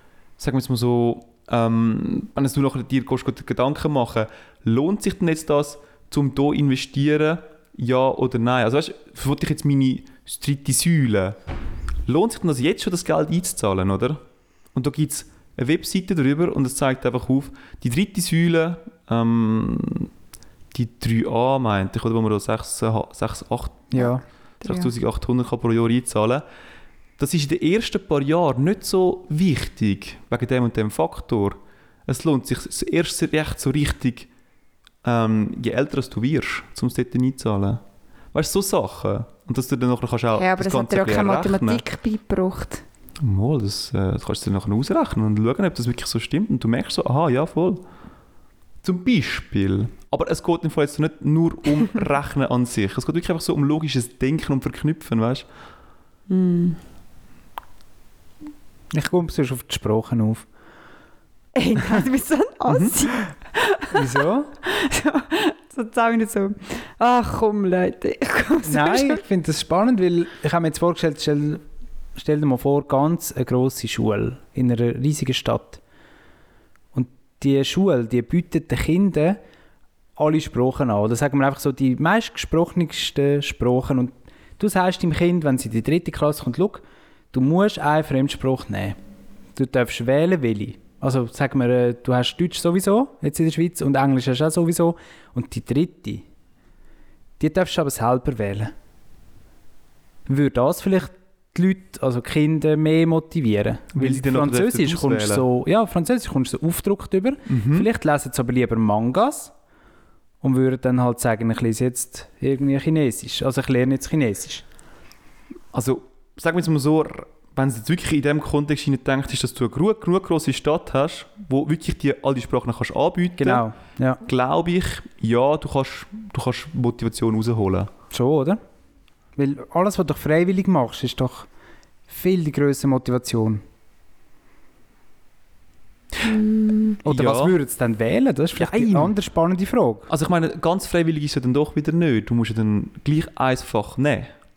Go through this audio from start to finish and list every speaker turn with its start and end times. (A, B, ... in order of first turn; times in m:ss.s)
0:00.4-0:11.4 A
0:12.1-0:14.2 A
0:14.7-0:20.1 A
0:20.7-0:24.1 A
0:23.9-0:24.2 B
0:24.0-0:24.9 C
0:24.6-0:26.4 A
0:27.2-0:34.3 A
0:35.0-0:37.8 A
0:38.3-0:41.8 A
0:40.4-0:42.8 C
0:43.2-0:47.8 A
0:48.8-0:55.5 A
0:56.3-0:56.8 C
0:58.9-1:00.5 B
1:01.6-1:09.2 C
1:02.7-1:03.0 A
1:03.9-1:04.5 B
1:08.6-1:11.6 B
1:12.2-1:15.8 B
1:16.9-1:19.4 B
1:20.2-1:29.0 B
1:29.6-1:36.2 B
1:37.4-1:38.7 B
1:40.3-1:49.5 B
1:43.9-1:45.4 A
1:47.5-1:47.9 A
1:50.4-1:54.6 B
1:55.7-2:03.6 A
2:03.4-2:04.2 B
2:04.2-2:07.9 A
2:08.1-2:08.6 B
2:09.4-2:11.5 B
2:12.1-2:13.6 B
2:16.3-2:17.0 C
2:17.0-2:20.1 B
2:17.0-2:17.5 A
2:18.6-2:19.1 A
2:20.1-2:24.3 A